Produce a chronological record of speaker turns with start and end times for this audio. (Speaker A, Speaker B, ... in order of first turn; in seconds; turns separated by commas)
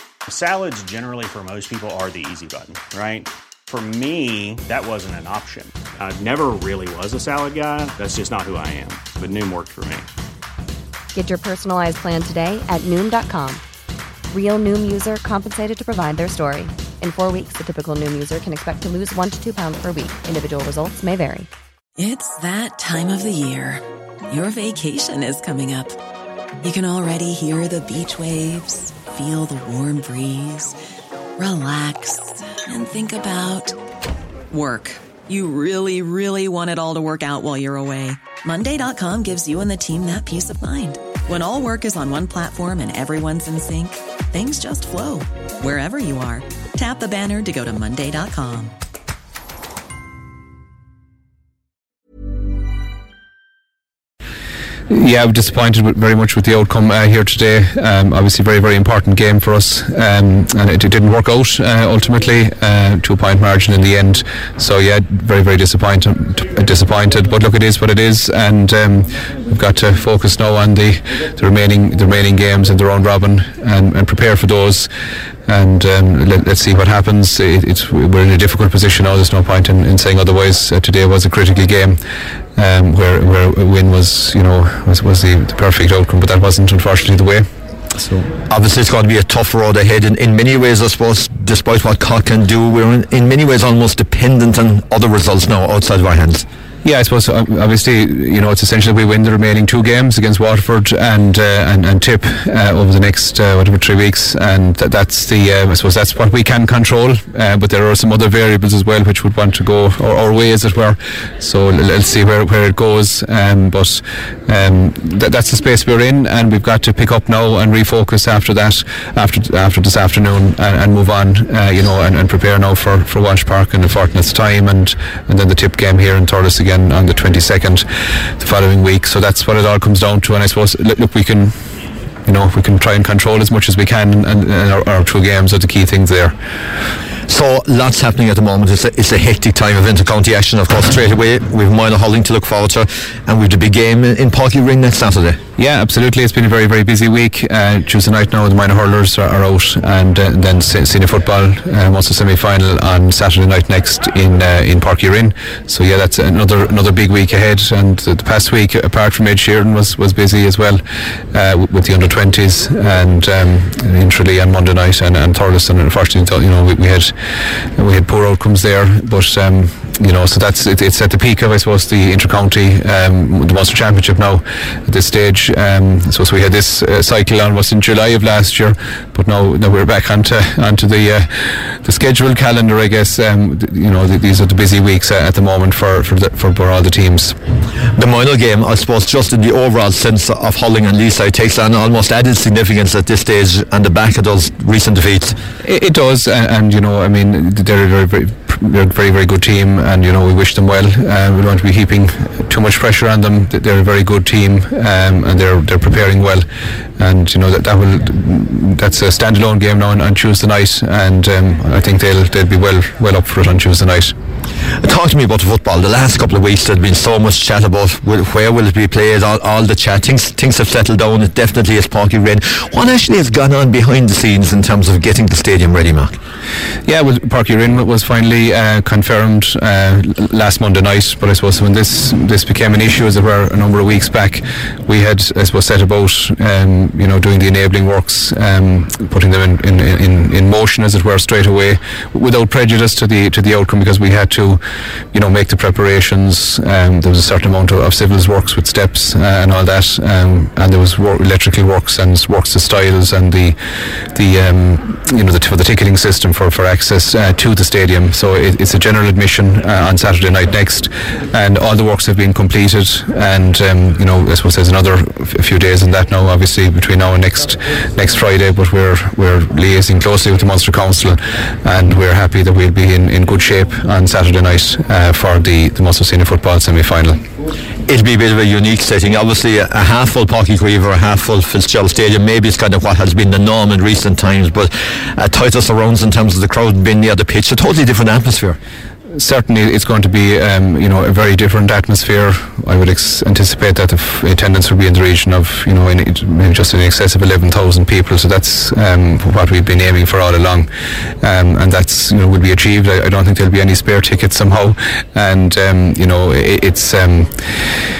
Speaker A: 0.3-10.1, Speaker B: 11.1-13.6, Speaker B: 14.3-21.5, Speaker C: 22.0-26.0, Speaker C: 26.6-30.8, Speaker C: 31.4-33.8, Speaker C: 34.5-48.7, Speaker D: 54.9-74.9, Speaker D: 75.5-82.0, Speaker D: 82.5-88.3, Speaker E: 88.5-96.5, Speaker D: 96.8-127.8, Speaker D: 128.4-131.5, Speaker D: 132.2-136.4, Speaker E: 137.3-145.4, Speaker D: 145.6-187.3, Speaker E: 187.9-195.4, Speaker D: 195.6-206.4, Speaker D: 207.0-214.1, Speaker E: 214.8-226.2, Speaker D: 226.8-244.6, Speaker D: 245.1-277.2, Speaker E: 277.9-288.6, Speaker D: 289.1-307.6